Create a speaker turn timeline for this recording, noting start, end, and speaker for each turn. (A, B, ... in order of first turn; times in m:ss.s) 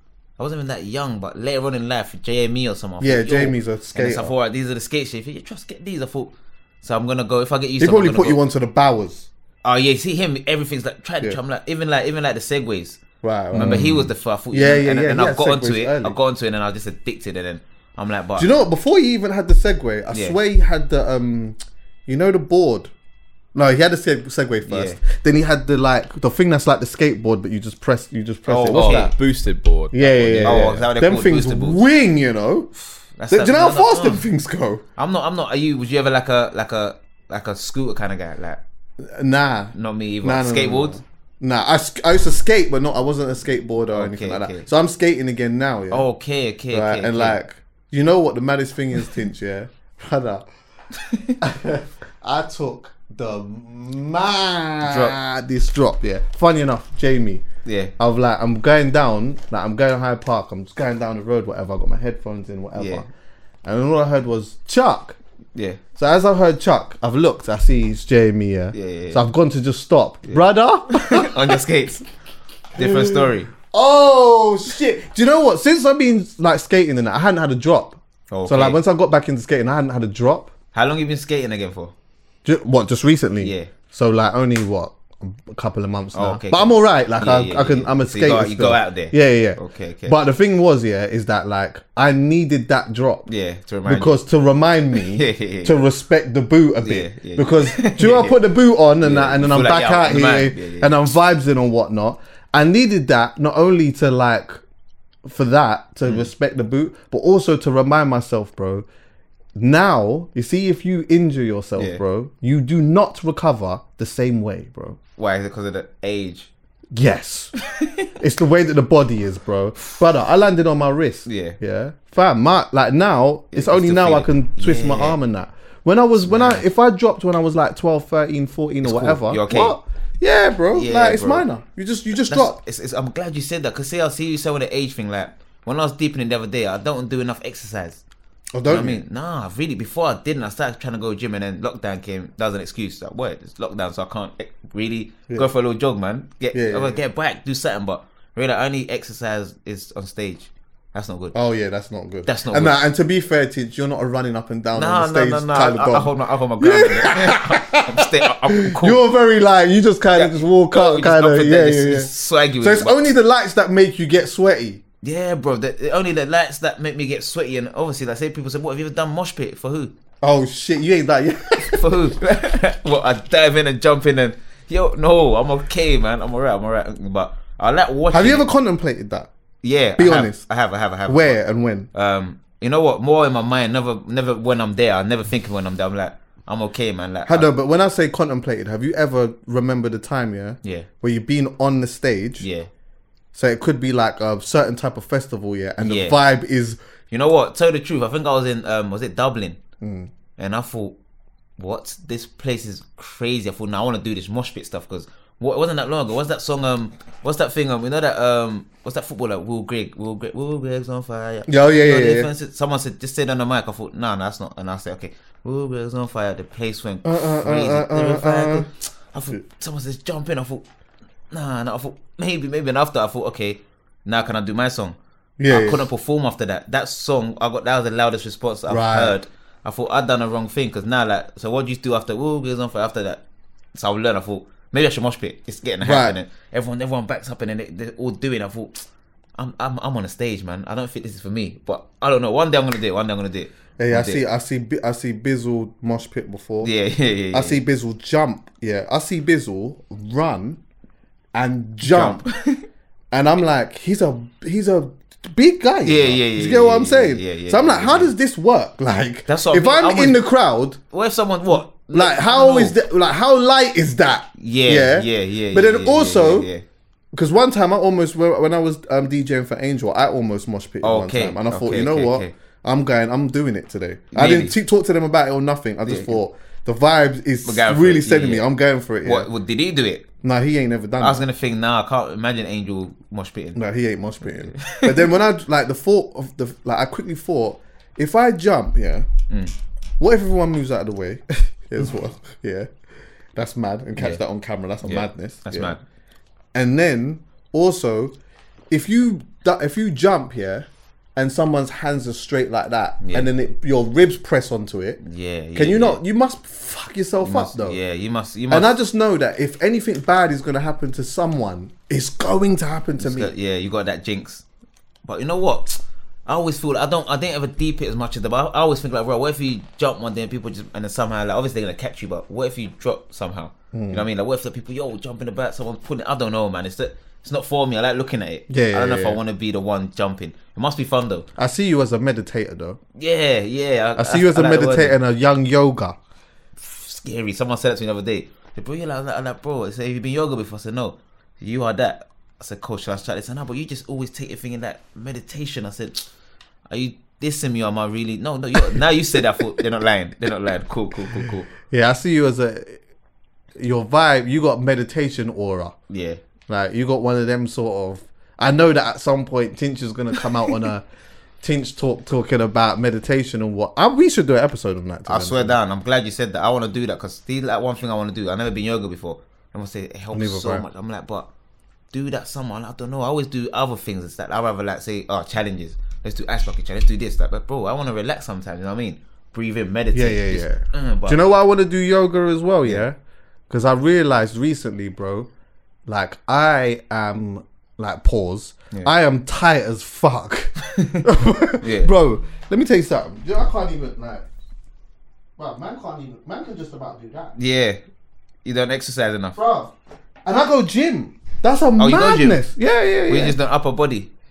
0:00.4-0:08.4 A
0:03.0-0:04.3 B
0:07.8-0:09.3 B
0:09.6-0:18.5 A
0:13.2-0:16.2 B
0:13.6-0:13.9 C
0:18.4-0:22.9 B
0:20.1-0:20.4 A
0:23.5-0:29.1 B
0:24.6-0:25.0 A
0:28.5-0:29.1 A
0:28.7-0:30.9 C
0:29.9-0:32.7 B
0:30.4-0:31.8 A
0:32.8-0:34.3 A
0:33.3-0:34.8 B
0:35.0-0:38.6 A
0:39.0-0:46.1 B
0:39.7-0:41.0 A
0:43.9-0:44.7 A
0:45.9-0:47.4 A
0:46.7-0:50.5 B
0:51.0-0:51.4 A
0:51.4-0:57.4 B
0:54.8-0:55.1 A
0:57.6-0:57.9 A
0:58.0-1:03.1 B
1:02.8-1:03.0 A
1:03.6-1:05.2 B
1:05.5-1:05.8 A
1:06.0-1:11.5 B
1:08.7-1:09.2 A
1:10.2-1:12.0 A
1:12.8-1:13.5 A
1:12.8-1:20.5 B
1:18.3-1:18.8 A
1:20.7-1:21.9 A
1:22.4-1:33.2 B
1:23.4-1:23.7 A
1:26.1-1:30.2 A
1:33.2-1:34.2 A
1:33.8-1:44.6 B
1:35.0-1:35.8 A
1:36.8-1:38.4 A
1:39.0-1:41.0 A
1:45.2-1:48.9 B
1:49.5-1:55.0 B
1:55.2-1:56.5 A
1:56.9-1:57.5 B
1:57.8-1:58.0 A
1:58.2-2:12.6 B
2:01.2-2:01.6 A
2:03.5-2:05.2 A
2:06.2-2:06.6 A
2:08.8-2:09.8 A
2:10.7-2:11.4 A
2:12.1-2:18.0 A
2:18.5-2:19.0 B
2:18.6-2:31.4 A
2:26.5-2:27.0 B
2:31.3-2:44.8 B
2:32.2-2:32.8 A
2:34.7-2:39.0 A
2:40.1-2:43.0 A
2:45.0-2:49.9 A
2:50.2-2:51.8 B
2:51.6-2:58.5 A
2:58.1-2:59.3 B
2:59.6-3:01.4 A
3:00.0-3:00.4 B
3:01.1-3:01.9 B
3:01.9-3:07.5 A
3:07.3-3:12.5 B
3:10.6-3:10.9 A
3:12.4-3:12.7 A
3:13.3-3:16.8 B
3:15.8-3:16.2 A
3:17.1-3:19.6 A
3:19.8-3:20.1 B
3:20.4-3:21.0 A
3:21.6-3:40.6 A
3:31.5-3:32.3 B
3:37.0-3:38.7 B
3:41.3-3:45.0 A
3:45.4-3:45.9 B
3:45.5-3:53.2 A
3:48.7-3:49.1 B
3:53.7-3:58.8 A
3:55.8-3:56.2 B
3:59.4-4:04.2 A
4:03.8-4:06.7 B
4:06.6-4:07.6 A
4:07.3-4:10.6 B
4:11.3-4:12.2 B
4:11.8-4:12.6 A
4:13.1-4:20.8 B
4:15.8-4:18.1 A
4:19.3-4:20.2 A
4:20.9-4:22.8 A
4:21.9-4:26.5 B
4:24.4-4:26.6 A
4:27.1-4:39.3 B
4:30.8-4:32.3 A
4:34.1-4:34.5 A
4:35.8-4:36.2 A
4:37.4-4:38.5 A
4:39.0-4:40.1 A
4:40.2-4:41.2 B
4:41.0-4:43.6 A
4:43.6-4:49.1 B
4:44.3-4:45.1 A
4:49.3-4:49.5 A
4:50.0-4:52.7 B
4:53.3-4:55.8 B
4:54.0-4:54.2 A
4:54.8-4:55.8 A
4:56.5-4:58.1 B
4:58.7-5:05.0 B
5:03.0-5:03.3 A
5:05.0-5:06.0 A
5:05.5-5:07.8 B
5:07.2-5:08.7 A
5:08.5-5:13.3 B
5:13.0-5:14.4 A
5:15.0-5:31.3 A
5:23.7-5:24.0 B
5:28.5-5:29.2 B
5:31.4-5:32.8 B
5:33.0-5:35.0 A
5:34.0-5:36.0 B
5:36.6-5:46.1 A
5:46.7-5:51.5 A
5:51.6-5:52.8 B
5:53.6-5:55.8 B
5:55.9-5:56.2 A
5:56.5-6:00.8 B
6:01.4-6:05.6 B
6:05.1-6:11.3 A
6:10.1-6:10.6 B
6:11.9-6:21.2 A
6:19.9-6:23.0 B
6:23.5-6:25.3 B
6:25.8-6:34.2 B
6:30.8-6:31.0 A
6:31.6-6:31.9 A
6:35.4-6:37.3 B
6:37.3-6:37.8 A
6:38.4-6:39.4 A
6:39.3-6:39.7 B
6:40.2-6:43.4 B
6:41.8-6:42.4 A
6:43.1-6:44.1 A